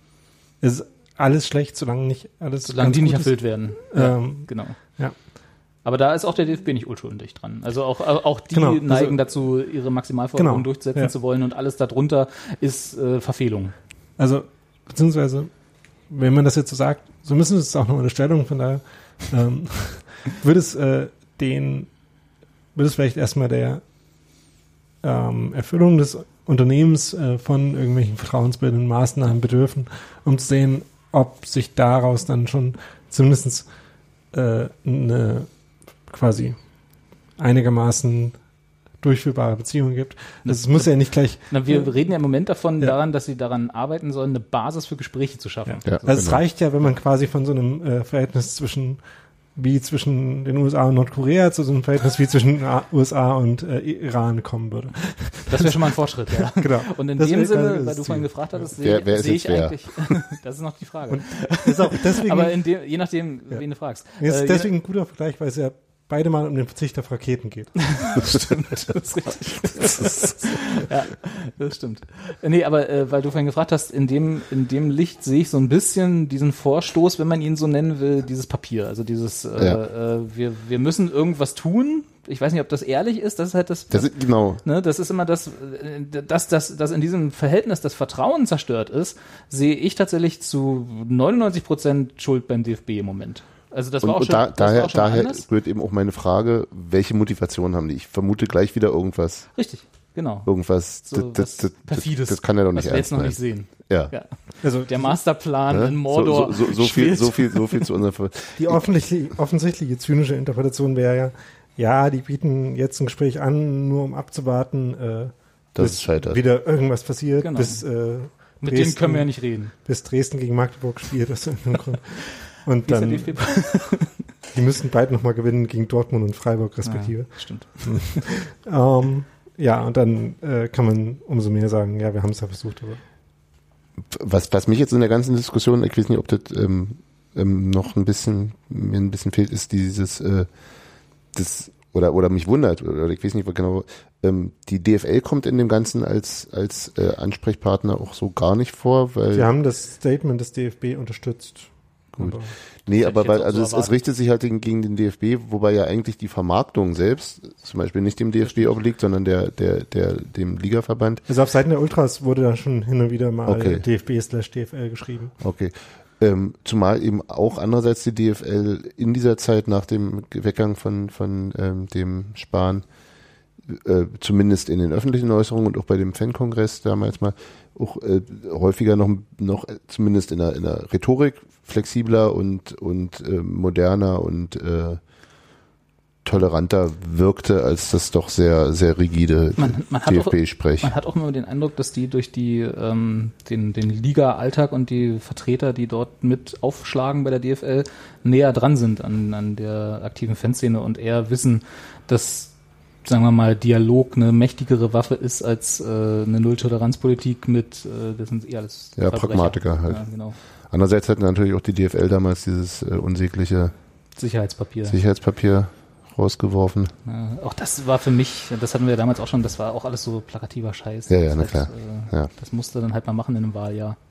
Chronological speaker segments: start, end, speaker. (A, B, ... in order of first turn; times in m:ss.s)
0:00.6-0:05.1 A
0:02.6-0:04.8 B
0:05.8-0:13.7 B
0:08.5-0:09.2 A
0:10.4-0:11.1 A
0:14.2-0:15.5 A
0:16.1-0:21.9 A
0:22.7-0:23.8 A
0:25.0-0:33.7 A
0:34.3-0:35.5 A
0:36.1-0:36.6 A
0:37.4-0:38.4 A
0:39.0-0:41.9 A
0:40.4-0:45.9 B
0:45.7-0:49.0 A
0:45.8-0:46.4 C
0:49.5-0:58.7 A
0:55.5-1:04.7 B
0:58.8-1:00.1 C
1:01.1-1:02.6 A
1:04.2-1:08.1 A
1:07.9-1:24.1 B
1:23.9-1:24.6 C
1:24.6-1:35.4 B
1:34.0-1:39.5 C
1:39.5-1:40.5 B
1:40.4-1:44.1 C
1:41.0-1:47.6 B
1:44.6-1:45.0 A
1:45.7-1:48.8 C
1:48.6-2:03.6 A
1:55.7-1:56.4 C
1:57.4-1:57.8 B
1:58.6-1:59.7 B
2:02.8-2:04.2 B
2:04.5-2:13.0 A
2:06.8-2:08.2 B
2:14.1-2:20.5 C
2:21.3-2:29.5 C
2:29.3-2:32.5 A
2:32.2-2:41.2 C
2:32.9-2:33.9 B
2:41.3-2:45.3 A
2:43.4-2:43.8 C
2:45.4-2:52.8 C
2:53.7-3:05.0 C
3:06.2-3:10.9 C
3:09.6-3:30.4 B
3:29.0-3:33.7 C
3:34.2-3:35.0 B
3:34.9-3:36.9 C
3:37.0-3:44.0 B
3:41.1-3:42.3 C